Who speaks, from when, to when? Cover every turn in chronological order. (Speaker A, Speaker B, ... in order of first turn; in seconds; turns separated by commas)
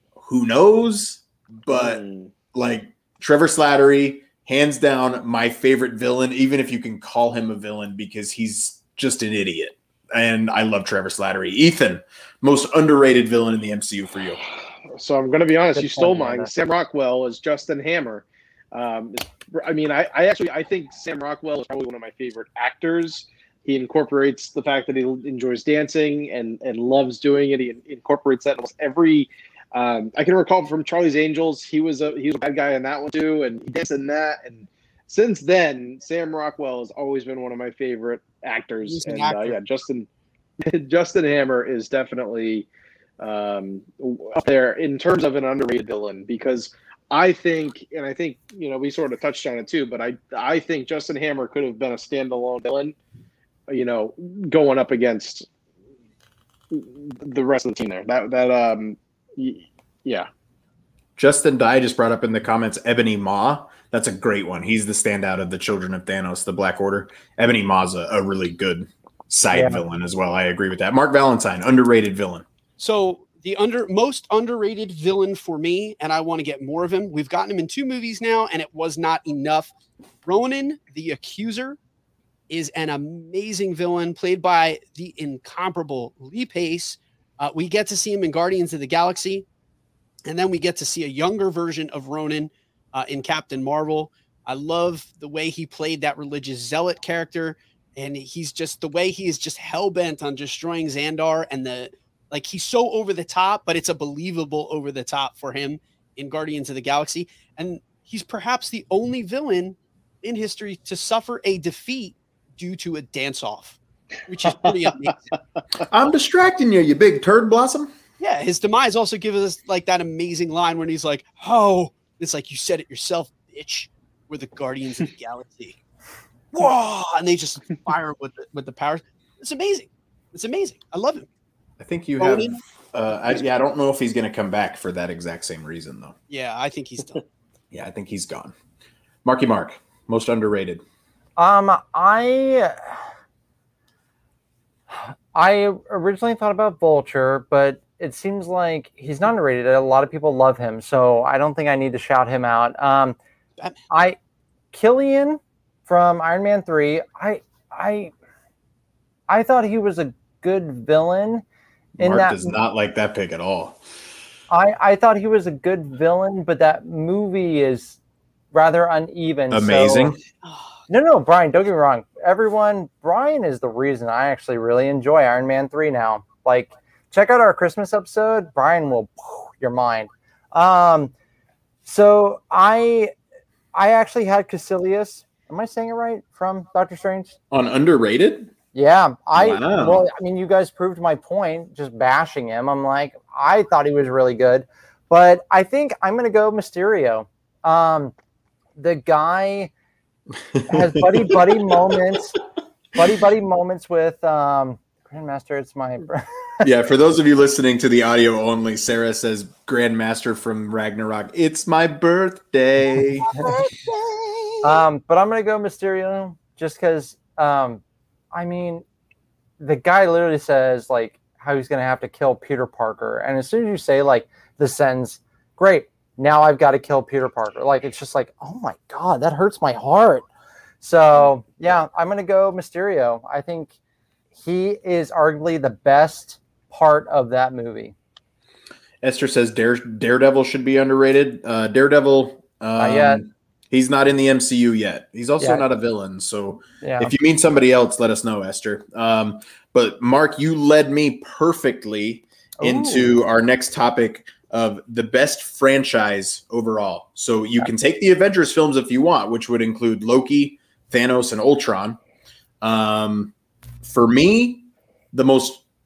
Speaker A: 0.2-2.0, Speaker B: 1.7-2.3, Speaker A: 2.5-14.4, Speaker B: 14.9-40.1, Speaker C: 15.7-16.5, Speaker D: 38.8-39.6, Speaker B: 40.6-42.7, Speaker B: 43.2-53.0, Speaker B: 53.7-55.5, Speaker B: 56.7-60.3, Speaker A: 61.2-72.4, Speaker C: 69.5-69.8, Speaker D: 72.8-79.7, Speaker D: 80.2-81.8, Speaker D: 82.5-89.5, Speaker D: 90.2-115.3, Speaker A: 115.9-117.9, Speaker D: 118.2-125.8, Speaker D: 126.5-131.3, Speaker A: 131.8-136.1, Speaker D: 132.2-132.6, Speaker D: 136.3-137.2, Speaker A: 137.7-138.6, Speaker A: 139.2-140.8, Speaker C: 141.4-143.0, Speaker C: 144.9-153.2, Speaker C: 153.9-154.2, Speaker C: 154.7-158.1, Speaker C: 159.3-161.4, Speaker A: 162.0-163.8, Speaker C: 162.0-162.5, Speaker C: 164.5-168.0, Speaker C: 168.5-170.2, Speaker A: 169.5-170.2, Speaker D: 170.4-170.8, Speaker C: 170.9-181.1, Speaker C: 181.8-183.1, Speaker C: 183.7-187.4, Speaker A: 187.5-188.5, Speaker C: 188.7-198.1, Speaker A: 189.3-190.1, Speaker C: 198.8-199.7, Speaker A: 200.5-201.7, Speaker C: 200.7-202.4, Speaker C: 202.9-206.6, Speaker A: 206.6-214.5, Speaker C: 214.6-217.8, Speaker C: 218.3-218.8, Speaker C: 219.6-230.3, Speaker C: 230.8-233.7, Speaker C: 234.3-237.9, Speaker A: 239.0-262.0, Speaker C: 242.8-243.2, Speaker C: 246.8-247.1, Speaker C: 252.6-253.2, Speaker A: 262.6-265.6